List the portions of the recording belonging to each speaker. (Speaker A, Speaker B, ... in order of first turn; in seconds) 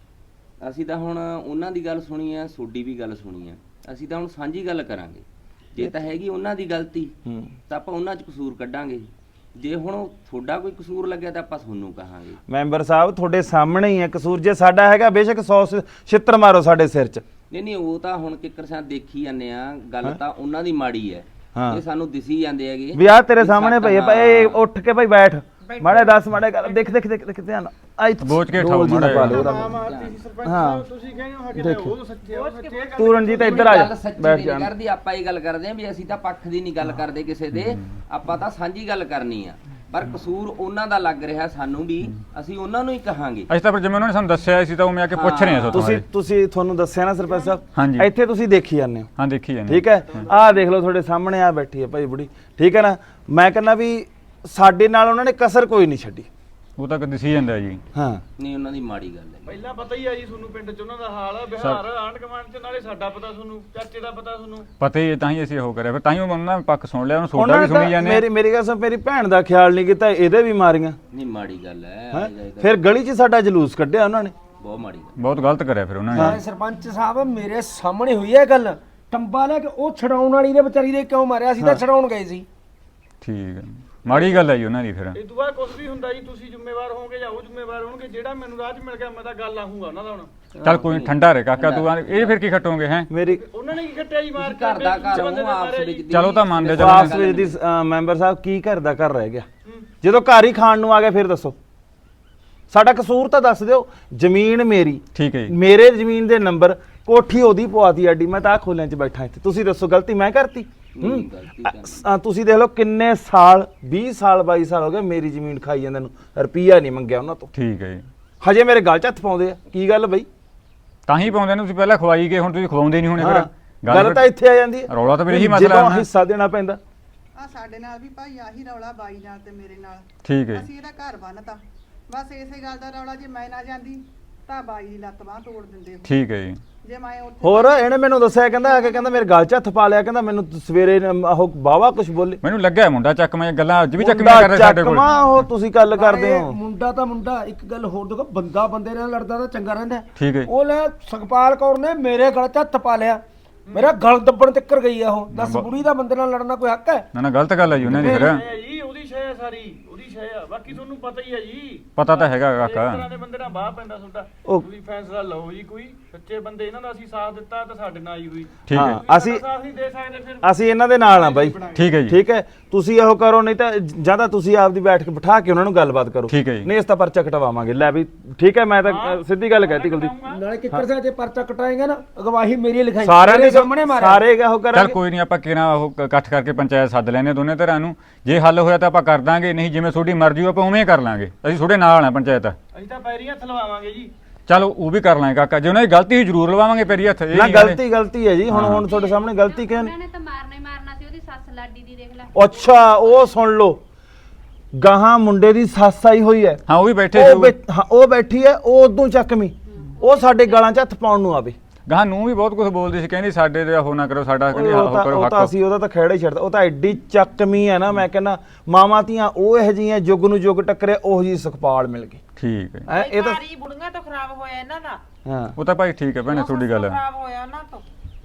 Speaker A: 0.6-7.1, 7.7-12.4, 17.5-24.6, 29.4-30.2, 33.3-43.5, 45.1-45.9, 58.4-59.6, 71.1-72.8, 74.6-75.1, 90.6-92.4, 94.3-97.6, 111.0-112.0
Speaker B: 5.8-6.0, 7.2-7.5, 12.5-17.2, 21.5-21.8, 22.9-29.8, 30.4-30.8, 31.5-31.9, 33.0-34.7, 45.7-49.1, 49.7-56.3, 57.9-58.2, 67.3-71.0, 72.1-74.3, 76.1-76.4, 93.1-93.4, 96.7-99.5, 100.0-101.6, 102.7-117.5, 118.4-120.3, 123.2-126.8, 137.4-142.4, 144.0-146.5, 157.8-158.1, 168.7-169.4, 170.4-180.1, 183.1-185.0, 197.3-199.9, 202.3-203.8, 204.7-211.6, 214.5-222.2, 222.9-223.4, 225.2-225.6
Speaker C: 25.6-26.9, 32.2-33.0, 222.9-225.0, 226.2-227.8
Speaker D: 28.2-29.5, 37.6-37.9, 43.5-46.0, 47.8-48.1, 49.2-50.3, 56.8-57.8, 64.8-68.2, 75.2-76.4, 83.2-85.2, 90.6-93.1, 96.1-97.2, 105.1-105.5, 117.5-118.1, 121.1-124.3, 124.9-126.0, 130.2-130.7, 136.0-136.6, 142.4-145.4, 150.2-150.5, 155.3-155.7, 157.1-158.4, 162.0-163.1, 168.7-169.0, 171.8-172.2, 176.3-176.7, 184.7-192.6, 194.5-197.8, 198.5-198.8, 206.7-207.6, 211.9-215.5, 222.4-222.8, 225.6-227.0
Speaker E: 29.2-33.9, 59.5-64.7, 85.1-90.3, 93.3-96.3, 157.9-172.0, 178.8-180.4, 192.7-194.1
Speaker F: 76.1-82.4, 145.9-153.2, 153.7-157.1, 158.0-158.3, 180.3-184.2
Speaker G: 127.3-136.0, 136.8-139.2
Speaker H: 198.8-203.3, 210.0-210.6